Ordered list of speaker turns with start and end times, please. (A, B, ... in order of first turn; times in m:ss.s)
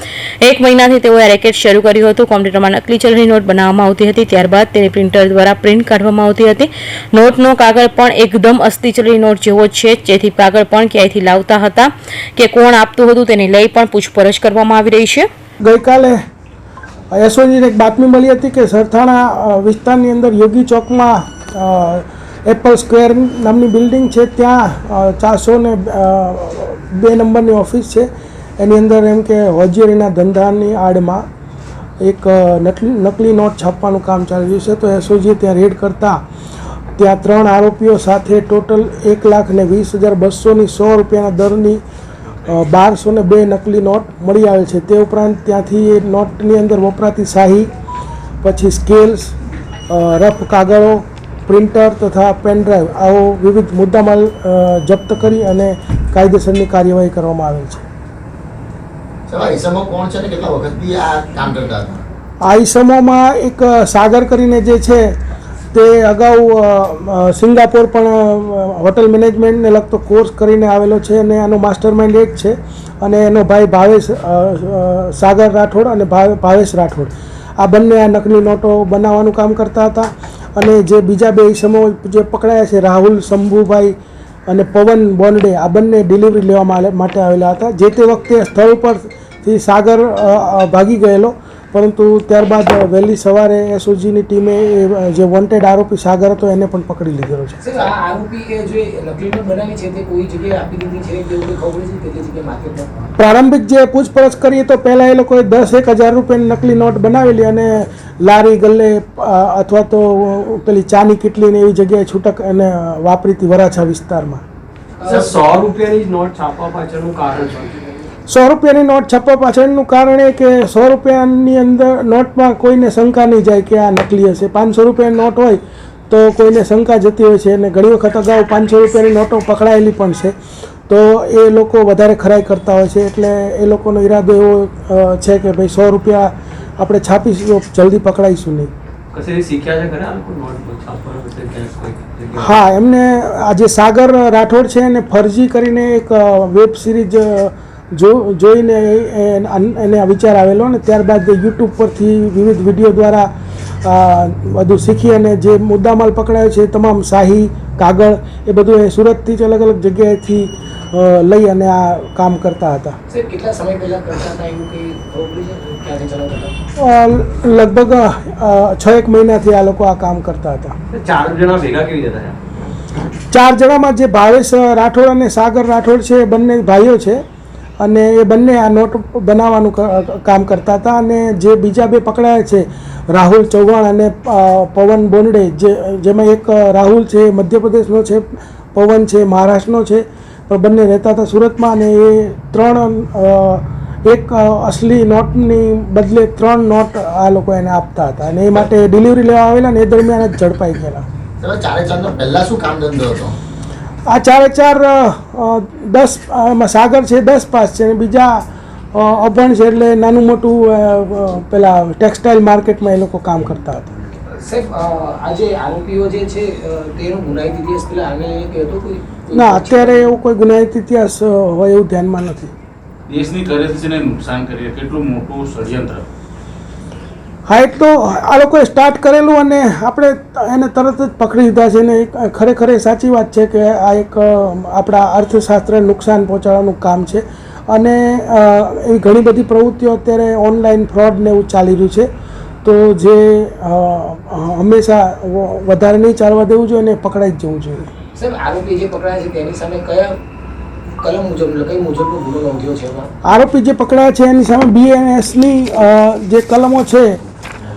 0:00.4-0:15.3 A
0:15.6-0:16.2 B
0:17.1-0:31.2 B
0:32.0-0:36.2 B
0:37.0-0:41.8 B
0:42.5-0:47.7 B
0:48.4-0:49.4 B
0:49.9-0:57.8 B
0:59.3-1:02.0 C
1:02.4-1:05.1 B
1:05.7-1:24.0 B
1:24.5-1:37.6 B
1:37.6-1:42.9 D
1:43.2-1:54.4 B
1:55.0-1:55.3 D
1:55.1-1:57.8 E
1:58.3-2:10.4 B
2:10.9-2:18.7 B
2:19.1-2:22.6 E
2:22.4-2:33.3 B
2:33.8-2:43.0 B
2:43.1-2:46.6 D
2:46.8-2:50.8 B
2:50.9-2:52.4 E
2:53.3-2:57.2 B
2:57.8-3:21.1 B
3:21.4-3:23.4 C
3:24.1-3:28.4 B
3:28.9-3:34.0 B
3:34.4-3:40.1 D
3:39.3-3:42.5 B
3:43.1-3:46.0 F
3:47.5-4:02.1 B
4:02.6-4:07.9 B
4:08.2-4:10.2 D
4:11.0-4:13.1 D
4:13.2-4:17.2 B